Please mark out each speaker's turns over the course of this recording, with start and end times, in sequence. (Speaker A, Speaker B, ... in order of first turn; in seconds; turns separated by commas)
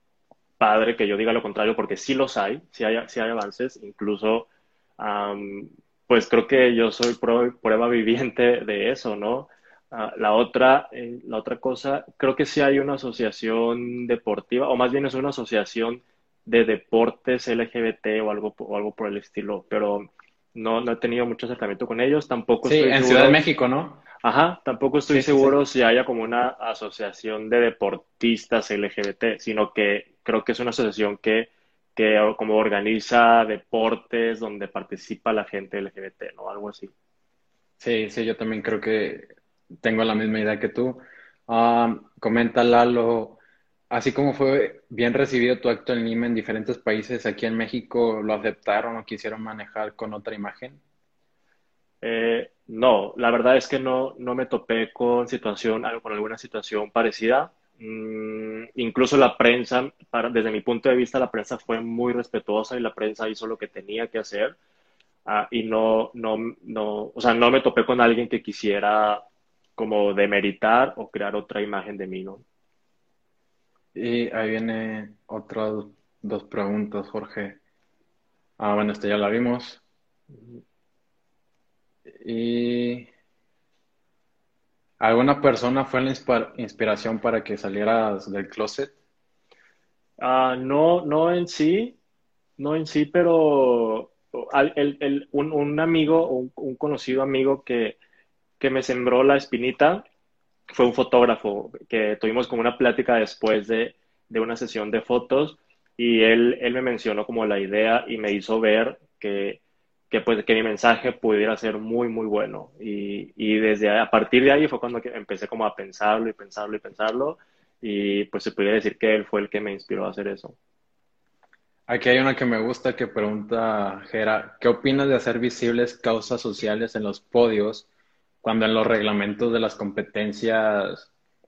Speaker A: 0.6-23.4, Speaker B: 22.6-24.0, Speaker A: 24.2-36.9, Speaker B: 25.1-25.5, Speaker B: 37.8-39.3, Speaker B: 39.8-43.4, Speaker B: 43.9-50.8, Speaker A: 52.0-64.5, Speaker A: 65.2-69.2, Speaker A: 69.8-72.4, Speaker B: 73.9-77.6, Speaker B: 78.6-79.8, Speaker B: 82.1-83.1, Speaker B: 85.0-88.9, Speaker A: 90.2-92.0, Speaker A: 92.6-98.0, Speaker A: 98.6-100.0, Speaker A: 100.7-120.5, Speaker B: 121.9-127.9, Speaker B: 128.4-131.1